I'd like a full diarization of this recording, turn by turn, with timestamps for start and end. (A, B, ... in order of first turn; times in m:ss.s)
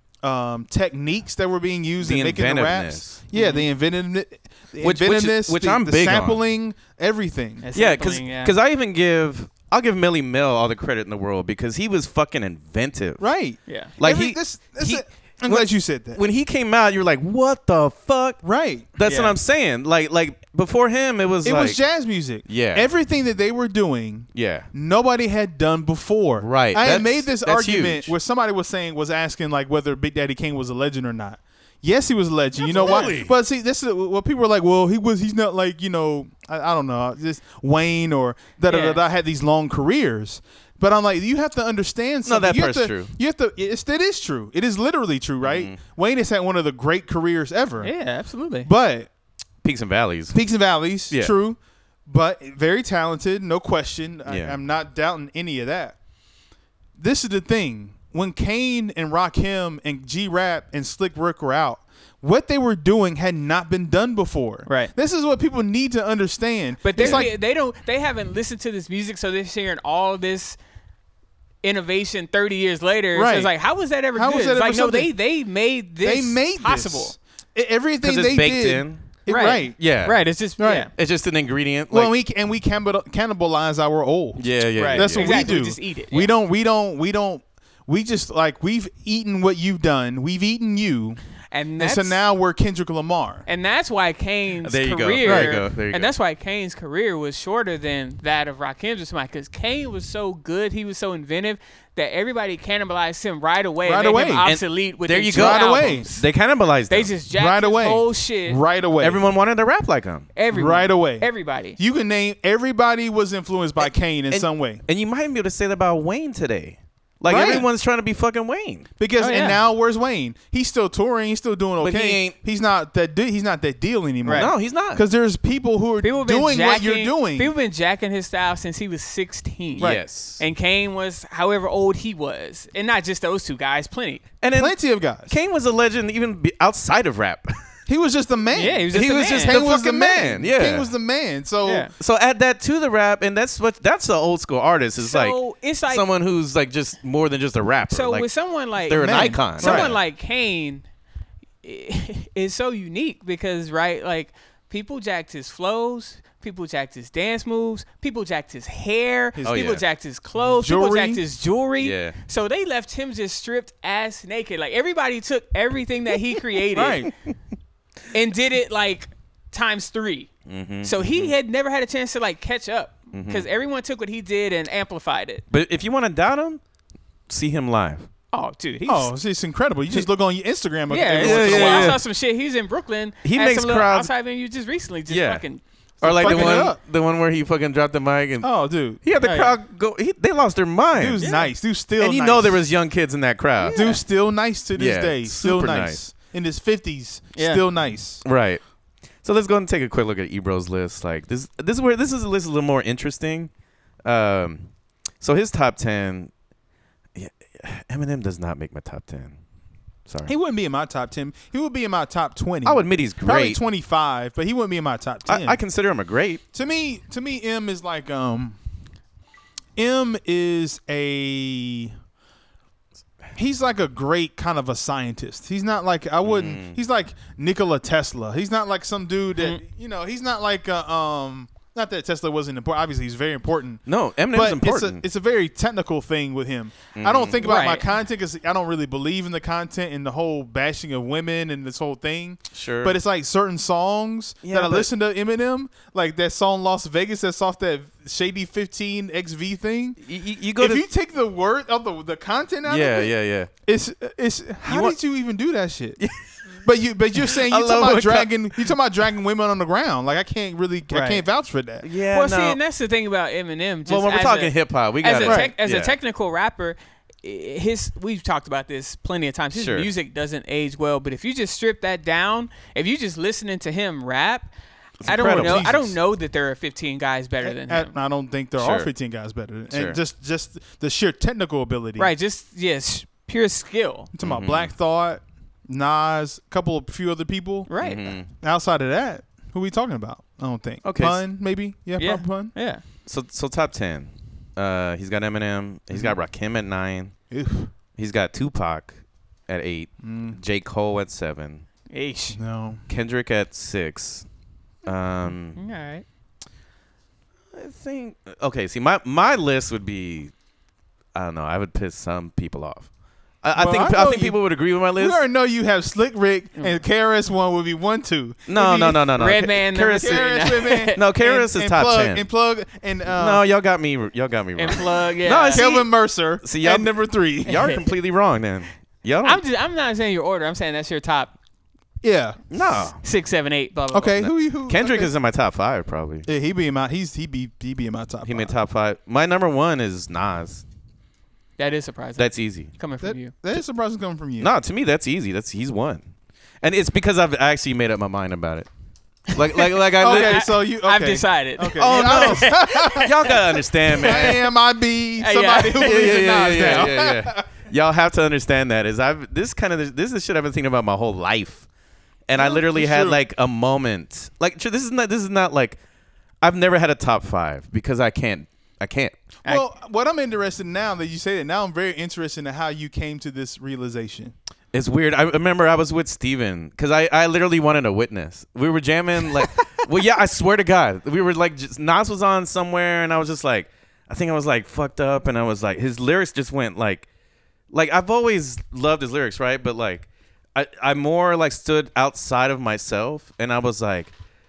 0:00.2-0:07.6 A
0:02.0-0:03.2 B
0:03.3-0:03.6 C
0:04.8-0:06.4 B
0:07.6-0:08.5 C
0:07.7-0:13.3 B
0:13.2-0:16.2 A
0:13.7-0:13.9 C
0:14.0-0:18.4 B
0:18.4-0:18.9 A
0:18.9-0:21.8 B
0:19.0-0:19.4 C
0:21.4-0:47.9 A
0:22.4-0:22.9 B
0:24.3-0:24.7 B
0:26.4-0:28.1 B
0:32.6-0:33.2 C
0:32.6-0:33.3 B
0:38.7-0:39.0 C
0:42.2-0:43.1 B
0:45.4-0:45.8 B
0:47.8-0:48.7 C
0:48.6-0:49.1 A
0:49.6-0:50.4 B
0:50.3-0:56.0 A
0:54.2-0:54.6 B
0:57.0-1:07.3 A
1:04.6-1:04.9 C
1:06.8-1:10.6 C
1:07.0-1:07.3 B
1:11.6-1:17.1 C
1:13.1-1:13.5 A
1:14.1-1:15.1 A
1:16.0-1:19.8 A
1:18.0-1:20.2 B
1:19.3-1:20.9 C
1:20.6-1:20.9 A
1:20.9-1:22.1 B
1:21.9-1:31.2 A
1:24.4-1:25.6 B
1:24.8-1:26.3 C
1:31.5-1:32.2 C
1:31.8-1:33.4 A
1:33.4-1:46.3 C
1:34.6-1:36.1 B
1:35.2-1:35.6 A
1:43.8-1:44.5 A
1:44.4-1:47.1 B
1:45.3-1:46.1 A
1:46.9-1:48.6 C
1:47.4-1:49.3 A
1:49.0-1:50.3 B
1:50.3-1:51.8 C
1:50.5-1:54.8 A
1:54.3-1:58.9 B
1:57.3-1:57.7 A
1:59.0-2:07.5 A
1:59.2-1:59.6 C
2:01.8-2:02.4 B
2:04.2-2:04.5 C
2:04.3-2:05.0 B
2:06.0-2:14.2 C
2:09.8-2:10.4 B
2:14.4-2:17.6 B
2:14.5-2:15.3 A
2:17.9-2:21.9 A
2:18.5-2:19.6 C
2:18.9-2:20.9 B
2:21.6-2:21.9 C
2:22.0-2:28.3 B
2:25.0-2:26.1 C
2:27.9-2:30.8 C
2:28.8-2:30.0 B
2:28.9-2:29.9 A
2:31.6-2:47.1 C
2:39.3-2:39.6 A
2:39.4-2:39.8 B
2:40.4-2:41.2 A
2:41.8-2:42.2 B
2:46.7-2:47.1 A
2:48.1-2:50.3 C
2:50.4-2:51.3 B
2:50.8-2:55.4 C
2:53.1-2:53.4 B
2:55.5-2:56.6 B
2:57.3-2:58.1 B
2:58.3-2:59.1 C
2:58.8-3:02.0 A
3:00.9-3:06.7 C
3:01.2-3:02.0 B
3:03.2-3:04.1 B
3:05.1-3:05.4 B
3:06.0-3:11.4 B
3:06.0-3:06.8 A
3:08.4-3:09.0 A
3:09.2-3:09.6 C
3:10.9-3:12.7 A
3:11.2-3:11.5 C
3:12.0-3:13.9 B
3:13.6-3:14.0 C
3:13.7-3:18.2 A
3:14.7-3:16.0 B
3:17.3-3:17.6 C
3:18.2-3:18.6 B
3:19.2-3:23.5 B
3:24.0-3:26.3 B
3:27.1-3:29.4 B
3:30.1-3:30.3 B
3:30.2-3:35.6 A
3:32.6-3:33.6 B
3:35.3-3:36.4 B
3:36.5-3:38.6 A
3:39.8-3:41.9 A
3:43.3-4:10.0 A
3:46.2-3:46.8 B
3:49.4-3:49.6 C
3:53.9-3:55.0 B
3:56.9-3:57.5 B
3:57.4-3:57.9 C
4:02.5-4:02.9 B
4:04.4-4:04.9 B
4:10.0-4:10.8 B
4:10.6-4:13.1 A
4:12.6-4:13.5 B
4:13.6-4:16.0 A
4:14.6-4:15.0 B
4:16.6-4:21.9 A
4:17.2-4:18.7 B
4:20.9-4:21.2 C
4:21.8-4:22.6 B
4:22.1-4:34.5 C
4:23.8-4:26.0 B
4:25.2-4:25.5 A
4:29.5-4:29.9 B
4:35.0-4:35.7 B
4:35.0-4:37.9 C
4:35.0-4:36.0 A
4:37.4-4:42.1 A
4:38.6-4:38.9 B
4:39.7-4:40.0 B
4:42.0-4:44.1 C
4:44.1-4:52.5 A
4:44.2-4:44.7 B
4:47.7-4:48.0 C
4:47.8-4:48.3 B
4:50.8-4:51.2 B
4:52.0-4:52.8 C
4:53.0-4:57.1 B
4:57.3-4:57.7 A
4:57.9-5:01.6 B
5:00.0-5:00.4 A
5:01.9-5:02.4 C
5:02.3-5:02.8 A
5:02.9-5:04.3 B
5:04.8-5:05.6 B
5:05.6-5:06.0 C
5:07.5-5:10.3 B
5:11.1-5:12.9 B
5:13.4-5:15.2 B
5:13.5-5:14.4 A
5:15.0-5:18.6 A
5:18.5-5:22.2 B
5:18.6-5:21.0 C
5:19.9-5:23.4 A
5:23.1-5:29.4 B
5:24.6-5:25.6 C
5:25.5-5:27.7 A
5:27.5-5:27.8 C
5:29.2-5:31.3 C
5:32.0-5:32.8 A
5:32.5-5:33.0 B
5:33.0-5:34.2 C
5:33.9-5:35.1 A
5:34.2-5:36.3 B
5:36.2-5:38.5 A
5:38.2-5:40.6 B
5:41.6-5:43.3 C
5:42.2-5:42.7 B
5:43.0-5:44.5 A
5:44.4-5:46.0 B
5:46.6-5:48.7 B
5:49.3-5:50.5 B
5:49.6-5:53.4 C
5:50.0-5:53.1 A
5:51.8-5:54.5 B
5:53.9-5:54.3 C
5:53.9-5:57.5 A
5:55.2-5:56.9 C
5:55.7-6:01.6 B
6:02.3-6:05.8 B
6:02.4-6:03.2 A
6:06.4-6:09.2 B
6:09.4-6:14.3 A
6:14.7-6:27.1 B
6:27.7-6:34.1 B